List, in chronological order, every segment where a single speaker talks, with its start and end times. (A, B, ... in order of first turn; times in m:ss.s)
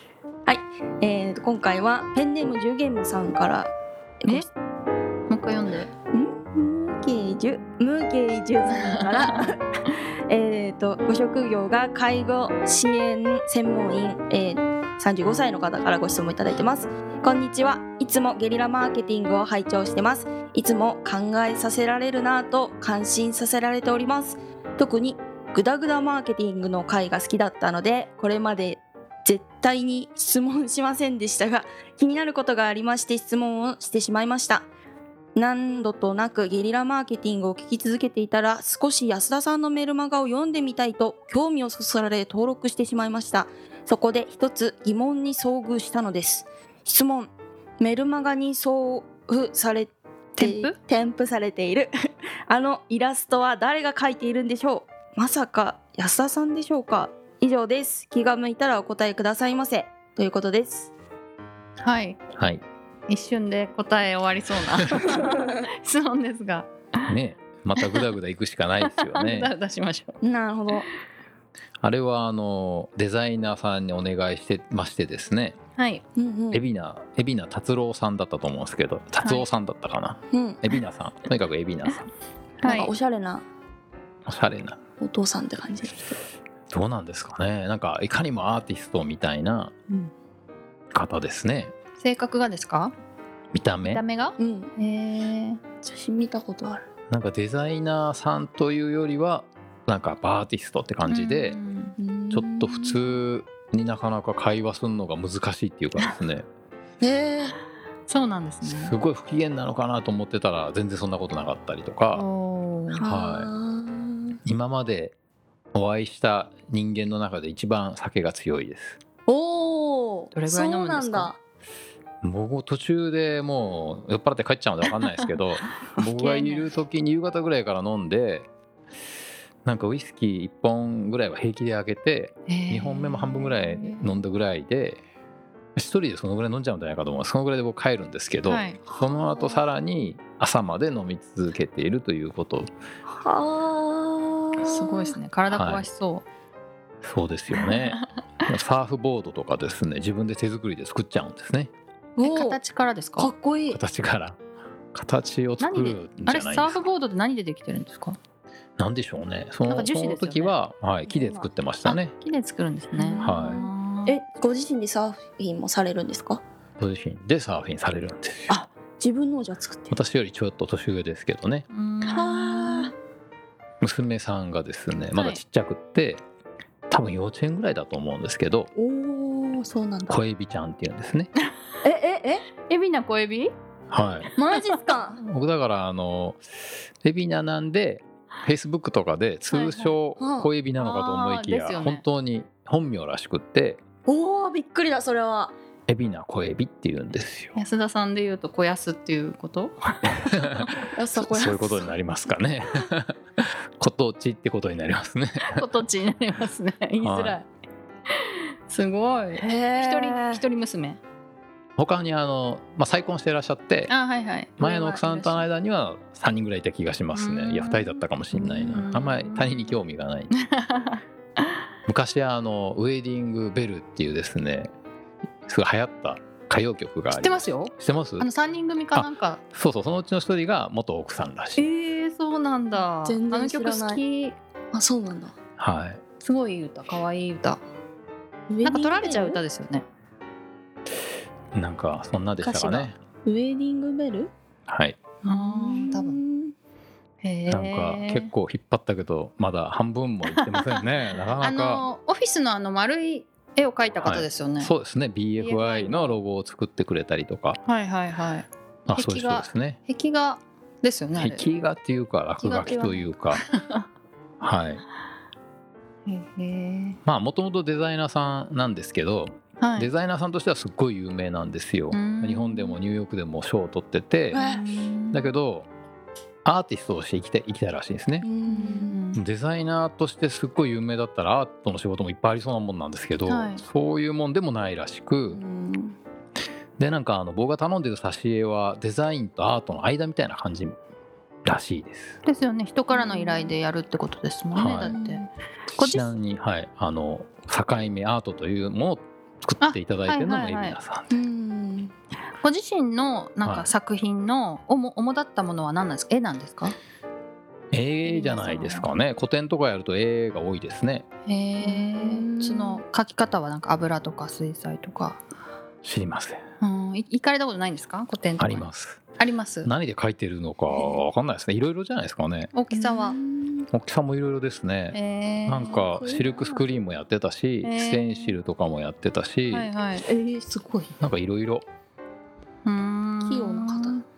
0:00.4-0:03.7 A
0:05.3-0:05.9 B
0:06.1-0:09.6 A
0:10.3-0:34.7 A
0:35.3-0:51.9 A
0:50.4-0:50.8 B
0:52.5-1:00.9 A
1:01.8-1:02.2 B
1:02.4-1:02.6 C
1:03.1-1:07.1 B
1:07.1-1:09.5 C
1:07.8-1:08.0 B
1:08.8-1:10.2 B
1:10.2-1:10.9 A
1:11.8-1:15.6 C
1:15.8-1:16.0 B
1:16.2-1:16.6 A
1:16.5-1:22.1 C
1:20.3-1:20.6 A
1:22.6-1:22.9 B
1:22.6-1:23.4 A
1:24.2-1:24.8 C
1:25.0-1:26.2 A
1:26.7-1:29.7 C
1:30.9-1:31.7 C
1:32.0-1:32.9 B
1:33.5-1:34.0 C
1:33.8-1:35.6 B
1:34.4-1:34.7 A
1:35.8-1:36.8 A
1:37.1-1:41.6 C
1:41.1-1:42.0 B
1:42.0-1:43.0 A
1:42.3-1:46.4 C
1:47.0-1:47.5 A
1:48.1-1:49.0 B
1:48.6-1:52.2 C
1:52.1-1:53.1 B
1:52.9-1:54.4 A
1:53.1-1:53.5 C
1:54.4-1:55.1 C
1:55.7-1:59.0 C
1:59.3-2:01.4 A
2:00.3-2:01.3 B
2:02.2-2:08.5 C
2:06.0-2:06.7 A
2:09.6-2:15.0 C
2:12.5-2:14.0 B
2:15.8-2:22.7 C
2:18.4-2:18.8 B
2:18.9-2:19.6 A
2:23.1-2:25.2 A
2:24.6-2:26.2 B
2:25.5-2:25.8 C
2:27.0-2:31.7 C
2:32.2-2:32.6 A
2:32.2-2:33.3 B
2:33.2-2:33.8 A
2:33.7-2:34.4 C
2:34.9-2:36.8 C
2:35.6-2:38.2 B
2:38.8-2:42.1 C
2:39.7-2:40.5 B
2:41.0-2:41.5 A
2:41.8-2:44.2 B
2:43.0-2:46.4 A
2:43.2-2:43.6 C
2:46.8-2:48.5 C
2:48.5-2:50.0 A
2:49.9-2:51.6 C
2:51.7-2:52.9 B
2:52.0-2:52.9 A
2:53.8-2:56.2 C
2:55.1-2:55.4 B
2:56.9-2:58.7 C
2:58.7-3:00.2 A
3:00.1-3:01.3 C
3:01.8-3:02.4 A
3:02.7-3:03.5 B
3:03.9-3:04.3 C
3:04.4-3:05.2 A
3:05.2-3:06.4 C
3:07.0-3:13.8 C
3:09.5-3:10.0 B
3:10.2-3:10.5 A
3:10.8-3:12.0 B
3:14.0-3:15.5 A
3:15.9-3:17.6 C
3:17.5-3:19.8 B
3:20.3-3:20.6 C
3:20.6-3:21.9 A
3:21.2-3:25.7 C
3:25.4-3:27.5 B
3:27.0-3:27.4 C
3:28.2-3:31.0 B
3:29.4-3:30.4 A
3:31.8-3:33.9 C
3:33.9-3:35.4 B
3:34.6-3:40.3 C
3:37.1-3:39.7 B
3:40.4-3:41.0 B
3:41.9-3:44.7 C
3:45.5-3:48.3 C
3:47.1-3:49.4 B
3:48.9-3:51.6 C
3:51.6-3:54.4 B
3:52.8-3:54.0 A
3:54.7-3:55.3 A
3:55.6-3:56.0 C
3:56.2-3:57.6 B
3:58.5-3:59.4 A
3:58.6-3:59.8 B
4:01.5-4:03.0 C
4:02.4-4:04.3 A
4:04.7-4:05.0 C
4:05.2-4:06.2 B
4:05.3-4:06.5 A
4:07.2-4:08.3 B
4:07.5-4:11.8 C
4:10.3-4:10.8 B
4:11.4-4:14.7 B
4:14.0-4:17.6 C
4:15.4-4:16.2 B
4:17.6-4:21.5 B
4:18.9-4:19.8 C
4:21.2-4:23.4 C
4:22.4-4:23.8 B
4:24.4-4:24.8 C
4:26.0-4:27.0 B
4:27.0-4:34.4 C
4:29.6-4:29.9 B
4:31.9-4:32.8 B
4:34.3-4:34.7 A
4:34.3-4:35.3 B
4:35.1-4:35.7 C
4:36.4-4:38.3 C
4:38.2-4:39.0 A
4:38.5-4:39.2 B
4:39.1-4:45.4 C
4:43.2-4:43.6 B
4:45.3-4:46.0 A
4:46.8-4:50.8 C
4:51.4-4:52.2 C
4:52.2-4:56.1 B
4:52.9-4:53.5 A
4:54.5-4:54.9 C
4:54.8-4:55.3 A
4:55.7-5:01.1 C
4:59.6-5:00.8 B
5:01.1-5:01.9 A
5:02.4-5:06.8 B
5:03.4-5:03.7 C
5:07.7-5:11.0 C
5:08.0-5:08.9 B
5:11.2-5:15.2 B
5:11.6-5:12.8 A
5:15.8-5:16.4 C
5:16.6-5:18.6 B
5:18.4-5:19.0 C
5:19.2-5:19.7 B
5:19.6-5:22.5 C
5:20.7-5:21.0 A
5:22.5-5:23.2 B
5:22.7-5:23.7 A
5:23.7-5:29.7 C
5:24.9-5:25.8 B
5:25.9-5:26.6 A
5:27.6-5:28.3 B
5:29.5-5:30.0 B
5:30.0-5:30.9 A
5:31.0-5:31.6 C
5:32.6-5:34.0 B
5:33.2-5:34.0 A